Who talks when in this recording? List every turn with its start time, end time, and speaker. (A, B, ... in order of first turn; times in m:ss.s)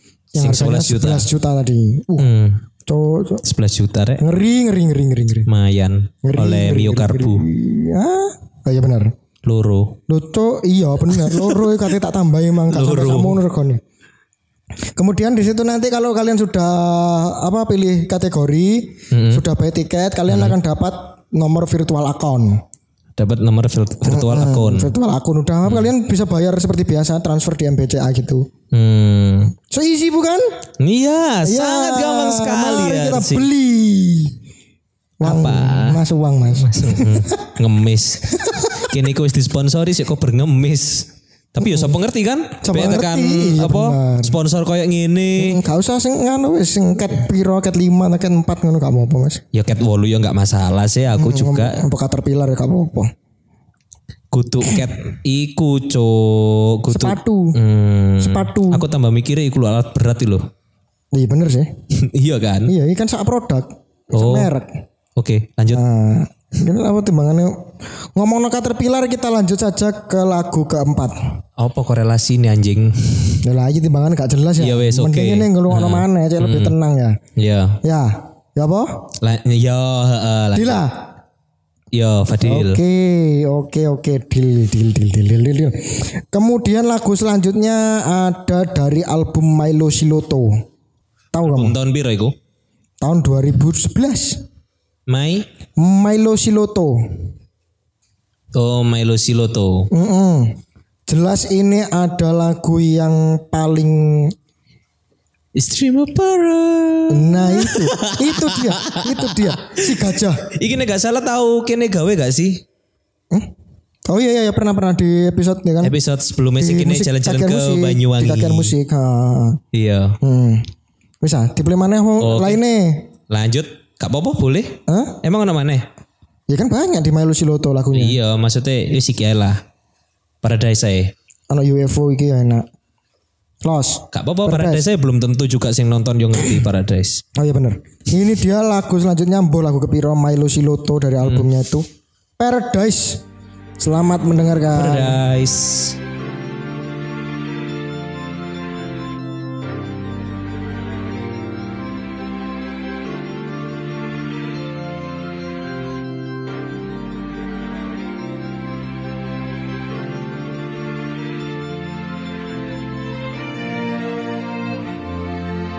0:00.4-0:01.3 A
0:00.4-0:02.3 B
0:02.2-0:02.6 A
0:02.8-0:03.4 B
0:03.4-0:04.2 A
0:04.2-0:05.5 B
0:05.5-0:07.4 A
0:06.2-0:09.1 B
0:09.4-0:10.0 A
0:10.1-0:13.8 B
0:11.1-0:11.7 A
0:12.7-0:13.4 A
0:14.9-0:22.6 B
0:19.1-0:19.4 A
0:20.3-0:20.5 A
0:23.2-0:24.9 A
0:24.0-0:28.5 B
0:25.6-0:25.9 A
0:28.7-0:29.6 A
0:29.7-0:30.6 B
0:30.8-0:33.5 A
0:31.4-0:34.4 B
0:35.2-0:36.0 A
0:35.2-0:37.4 B
0:36.6-0:45.6 A
0:38.3-0:38.9 B
0:41.6-0:42.0 B
0:42.6-0:44.4 B
0:45.4-0:49.4 B
0:49.5-0:51.8 A
0:51.2-0:53.1 B
0:54.3-1:00.5 A
0:56.9-0:57.6 B
0:58.2-0:58.8 B
1:01.1-1:01.7 B
1:01.9-1:02.7 A
1:02.7-1:04.7 B
1:04.1-1:04.5 A
1:05.2-1:05.8 A
1:05.7-1:11.2 B
1:11.6-1:13.4 A
1:13.4-1:17.2 B
1:14.6-1:16.7 A
1:17.4-1:17.8 A
1:17.8-1:19.0 B
1:19.2-1:20.8 A
1:20.5-1:20.9 B
1:21.9-1:22.8 A
1:22.4-1:30.6 B
1:31.3-1:31.8 B
1:31.4-1:32.3 A
1:33.0-1:34.4 B
1:35.1-1:35.4 A
1:35.8-1:37.3 B
1:38.5-1:39.9 A
1:39.9-1:44.3 B
1:45.6-1:49.9 A
1:47.1-1:50.4 B
1:50.5-1:52.6 A
1:54.0-1:55.9 B
1:55.8-1:58.7 A
1:56.6-1:59.6 B
1:59.7-2:00.2 A
2:00.2-2:00.7 B
2:01.2-2:03.1 B
2:02.2-2:02.6 A
2:03.3-2:05.9 A
2:04.9-2:05.2 B
2:06.5-2:08.2 B
2:07.9-2:09.6 A
2:10.4-2:11.1 A
2:11.5-2:12.6 B
2:13.6-2:14.9 B
2:14.1-2:17.2 A
2:17.4-2:21.9 B
2:21.2-2:21.5 A
2:22.4-2:23.2 B
2:23.8-2:25.2 B
2:24.7-2:26.0 A